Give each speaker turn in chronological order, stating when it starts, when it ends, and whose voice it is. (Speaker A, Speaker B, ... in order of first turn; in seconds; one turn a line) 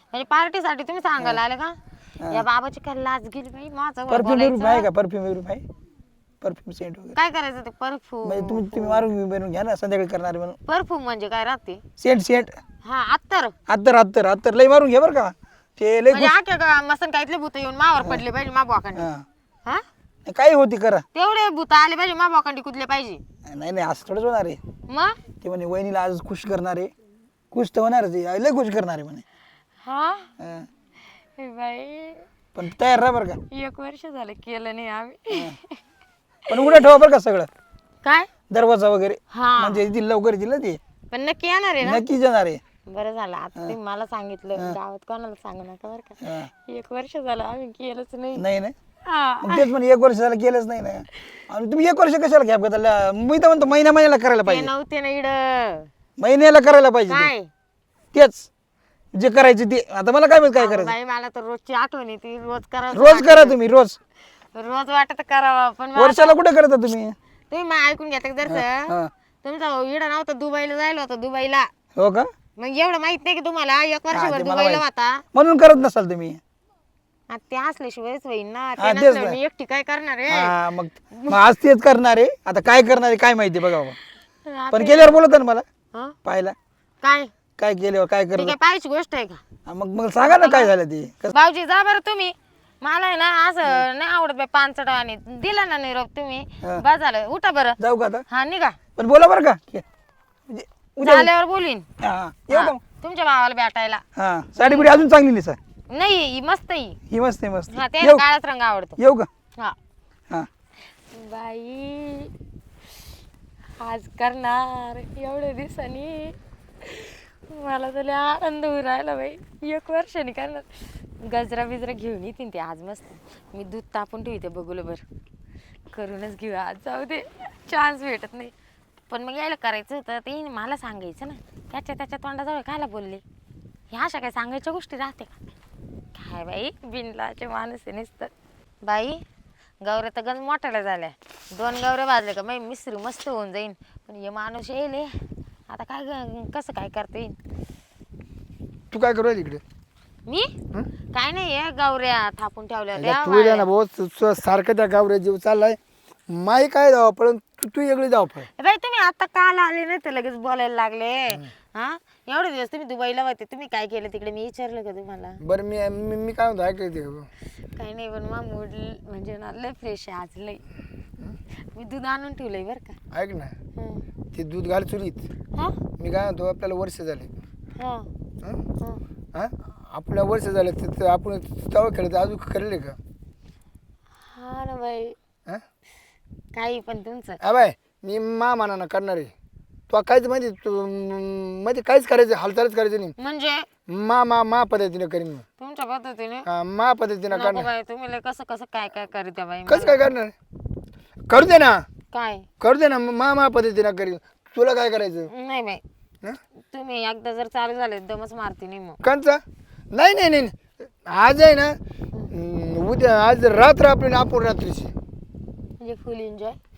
Speaker A: 0.1-1.8
Speaker A: 2.3-4.9
Speaker B: 4.1-5.7
Speaker B: 6.4-7.2
Speaker A: 7.1-9.1
Speaker B: 8.2-10.6
Speaker A: 10.7-11.8
Speaker B: 12.0-12.6
Speaker A: 12.8-13.6
Speaker B: 13.7-16.3
Speaker A: 16.1-19.1
Speaker B: 19.0-19.2
Speaker B: 20.3-21.1
Speaker A: 21.1-23.2
Speaker B: 23.4-24.6
Speaker A: 24.9-25.2
Speaker B: 25.4-26.9
Speaker B: 27.5-29.2
Speaker A: 29.8-30.3
Speaker B: 30.4-30.7
Speaker A: 31.4-32.2
Speaker B: 32.5-33.4
Speaker A: 33.5-35.8
Speaker B: 36.5-37.5
Speaker A: 38.0-38.3
Speaker B: 38.5-40.8
Speaker A: 39.3-39.9
Speaker A: 41.1-42.0
Speaker B: 41.8-42.6
Speaker A: 42.9-48.4
Speaker B: 46.2-46.5
Speaker B: 48.4-48.7
Speaker A: 49.0-49.7
Speaker B: 49.4-54.7
Speaker A: 54.4-55.9
Speaker B: 56.2-57.3
Speaker A: 57.1-57.5
Speaker B: 58.1-58.5
Speaker B: 59.1-61.0
Speaker A: 60.6-63.6
Speaker B: 62.9-64.0
Speaker A: 64.5-66.4
Speaker B: 66.0-67.2
Speaker A: 67.5-71.7
Speaker B: 68.5-69.1
Speaker B: 72.0-72.3
Speaker A: 72.6-75.2
Speaker B: 74.1-76.4
Speaker A: 77.3-80.5
Speaker B: 78.8-79.4
Speaker B: 80.3-84.0
Speaker A: 81.1-81.4
Speaker A: 84.5-85.2
Speaker B: 84.7-85.7
Speaker B: 86.2-86.5
Speaker A: 87.0-87.3
Speaker B: 87.6-88.5
Speaker A: 88.3-89.4
Speaker B: 89.7-91.3
Speaker A: 90.2-90.7
Speaker A: 91.3-97.8
Speaker B: 97.8-98.2
Speaker A: 98.3-98.8
Speaker B: 99.0-99.8
Speaker B: 100.5-101.3
Speaker A: 101.0-101.9
Speaker B: 102.0-102.8
Speaker A: 102.5-104.0
Speaker B: 104.2-105.6
Speaker A: 104.6-105.0
Speaker A: 105.9-107.0
Speaker B: 107.1-108.2
Speaker A: 107.7-109.0
Speaker B: 109.0-109.3
Speaker A: 111.1-112.3
Speaker A: 113.8-125.0
Speaker A: 125.9-128.5
Speaker A: 129.1-133.2
Speaker A: 133.9-135.3
Speaker A: 136.2-138.3
Speaker A: 138.8-139.2
Speaker A: 139.8-145.1
Speaker A: 145.7-147.3
Speaker C: 148.9-149.6
Speaker A: 150.3-150.5
Speaker A: 151.1-153.7
Speaker C: 153.0-155.8
Speaker C: 156.3-158.5
Speaker A: 158.6-165.4
Speaker C: 165.4-167.3
Speaker A: 167.8-170.6
Speaker A: 171.7-173.0
Speaker C: 173.1-173.5
Speaker A: 173.8-174.0
Speaker C: 174.3-175.2
Speaker C: 176.0-177.3
Speaker A: 177.8-178.1
Speaker C: 179.3-183.0
Speaker A: 184.3-185.2
Speaker A: 186.5-187.4
Speaker C: 187.4-189.3
Speaker C: 189.9-193.1
Speaker A: 193.2-193.7
Speaker C: 193.9-195.4
Speaker A: 195.6-196.5
Speaker C: 196.5-197.7
Speaker A: 197.3-200.1
Speaker C: 199.7-200.3
Speaker C: 201.3-201.9
Speaker A: 202.1-202.5
Speaker C: 202.6-205.3
Speaker A: 205.3-205.8
Speaker A: 206.7-209.0
Speaker C: 209.0-209.4
Speaker C: 209.9-211.8
Speaker C: 212.3-214.9
Speaker A: 215.8-216.6